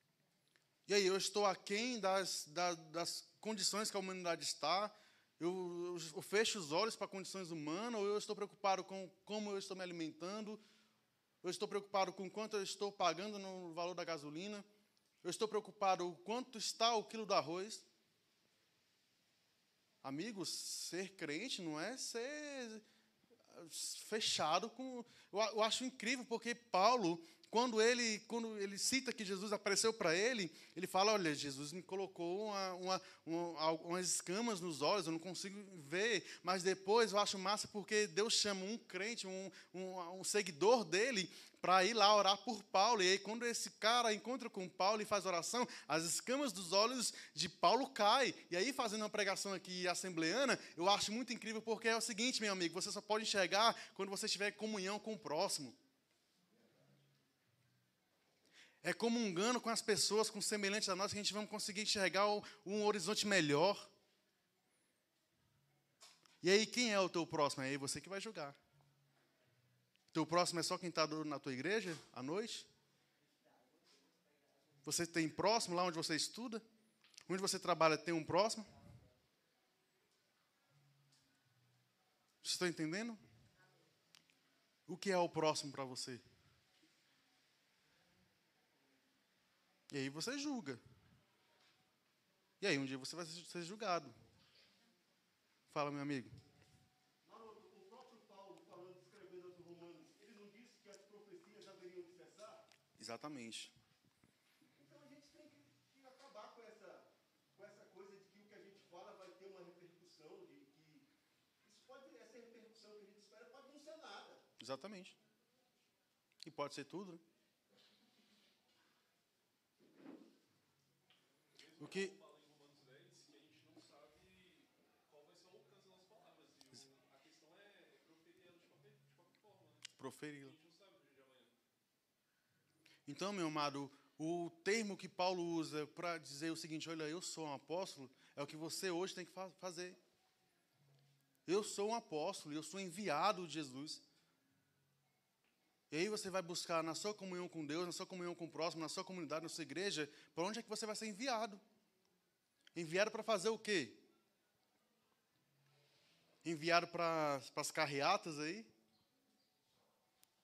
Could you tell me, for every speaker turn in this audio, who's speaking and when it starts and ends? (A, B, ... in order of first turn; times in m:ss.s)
0:00.9-0:10.6 A
0:11.4-0:14.7 A
0:15.2-0:17.8 A
0:20.0-0:22.8 A
0:23.5-0:55.8 A
0:56.5-0:57.0 B
0:58.8-1:03.9 A
1:06.4-1:08.6 A
1:10.1-1:12.7 A
1:14.8-1:16.6 A
1:17.3-1:18.7 A
1:22.4-1:23.2 A
1:24.9-1:26.2 A
1:29.9-1:30.8 A
1:32.6-1:34.2 A
1:35.7-1:36.4 A
1:37.2-1:42.7 B
1:43.0-1:43.7 A
1:44.8-1:51.1 B
1:51.6-1:54.5 B
1:54.6-1:55.2 A
1:56.4-1:57.2 A
2:01.6-2:11.6 C
2:01.8-2:02.2 A
2:10.0-2:10.6 A
2:13.1-2:20.0 A
2:21.5-2:24.0 A
2:25.9-2:31.6 A
2:32.8-2:34.0 A
2:36.4-2:38.7 A